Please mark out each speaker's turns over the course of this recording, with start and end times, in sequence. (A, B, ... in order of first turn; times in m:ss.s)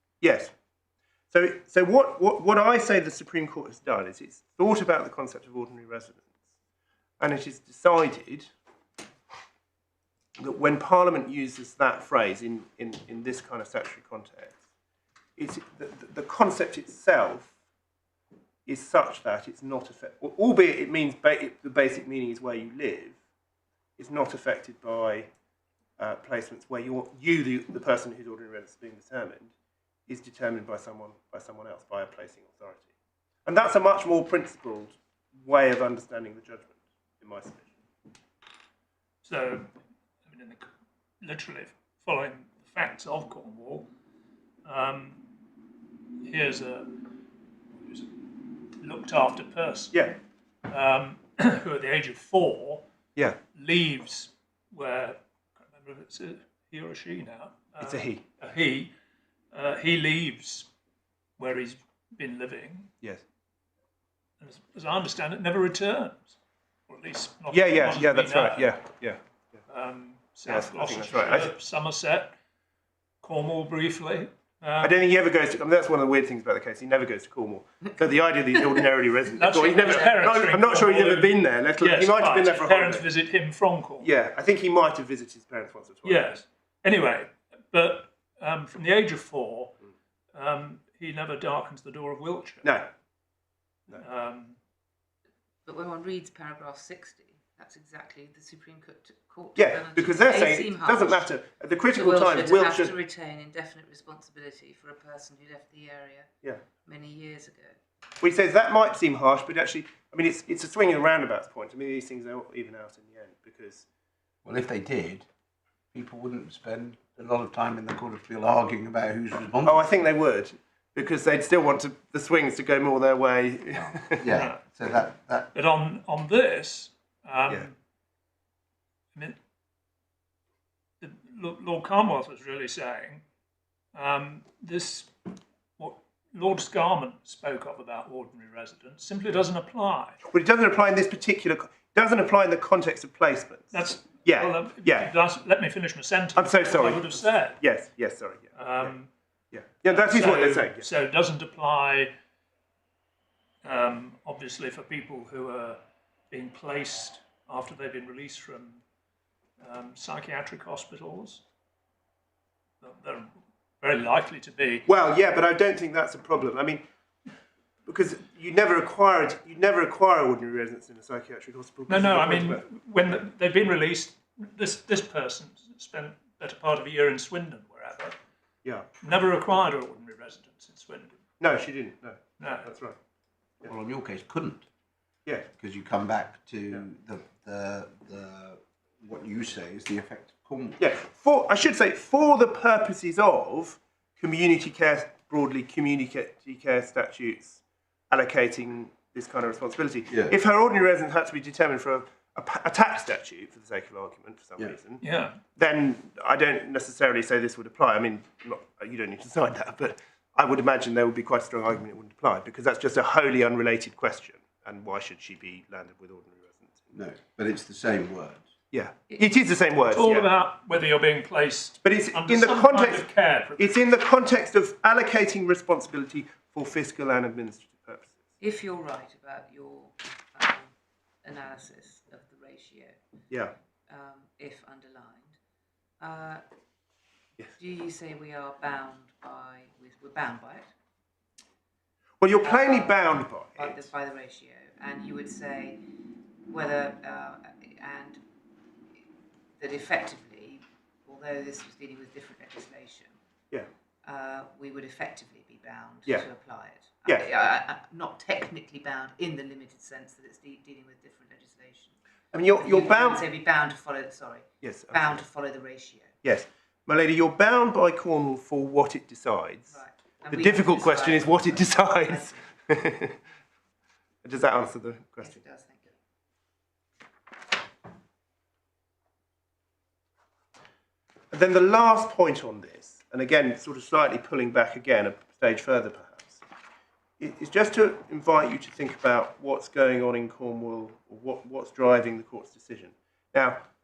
0:00.2-0:00.5 A
0:01.3-0:06.3 A
0:07.2-0:08.5 A
0:10.4-0:14.6 A
0:15.4-0:17.5 A
0:18.6-0:23.2 A
0:24.0-0:25.3 A
0:26.0-0:29.5 A
0:30.1-0:32.9 A
0:33.5-0:37.7 A
0:39.2-0:39.7 B
0:40.2-0:40.7 B
0:41.2-0:43.9 B
0:44.6-0:45.2 B
0:46.2-0:47.0 B
0:48.8-0:50.0 B
0:50.7-0:52.9 B
0:53.6-0:58.9 B
0:57.8-0:58.2 A
0:59.5-1:00.7 B
1:01.4-1:02.9 B
1:04.4-1:06.4 B
1:06.9-1:08.8 B
1:07.5-1:09.2 A
1:09.7-1:12.3 B
1:10.5-1:11.5 A
1:13.2-1:15.0 B
1:14.8-1:23.1 A
1:19.3-1:24.1 B
1:24.0-1:26.3 A
1:26.0-1:29.7 B
1:30.3-1:32.6 B
1:32.6-1:32.9 A
1:33.9-1:34.6 B
1:35.7-1:41.2 C
1:39.6-1:42.9 A
1:41.9-1:46.3 C
1:46.8-1:47.8 C
1:48.2-1:53.8 A
1:54.4-1:55.2 D
1:55.9-1:59.8 D
1:59.6-2:04.3 A
2:03.8-2:05.5 D
2:04.3-2:04.6 B
2:05.5-2:07.7 B
2:11.0-2:13.2 B
2:13.9-2:20.2 B
2:20.2-2:25.1 A
2:23.7-2:27.6 B
2:26.4-2:28.9 A
2:28.5-2:29.1 B
2:29.5-2:30.8 A
2:29.9-2:32.1 B
2:33.6-2:38.8 B
2:39.6-2:41.4 B
2:42.8-2:44.8 B
2:44.9-2:46.8 A
2:47.8-2:52.7 A
2:51.9-2:58.2 B
2:59.0-3:01.2 B
3:01.4-3:03.0 A
3:02.4-3:02.7 B
3:03.6-3:04.7 D
3:05.5-3:10.8 D
3:10.8-3:25.0 A
3:25.0-3:25.4 B
3:25.6-3:36.8 A
3:36.9-3:38.5 D
3:38.7-3:40.3 A
3:39.9-3:43.7 B
3:41.8-3:43.1 A
3:43.6-3:48.2 A
3:48.4-3:50.7 C
3:51.2-3:53.0 C
3:53.3-3:53.5 A
3:53.9-3:55.4 C
3:56.0-3:56.4 C
3:57.5-4:00.7 C
4:02.2-4:03.9 A
4:02.4-4:03.0 C
4:03.6-4:05.8 C
4:06.5-4:08.2 C
4:09.6-4:13.1 C
4:14.0-4:22.0 C
4:22.3-4:23.2 A
4:22.6-4:26.1 C
4:24.6-4:25.2 A
4:26.2-4:33.2 A
4:29.7-4:32.6 C
4:34.2-4:35.4 A
4:35.2-4:35.9 C
4:41.3-4:46.4 A
4:47.2-4:53.6 A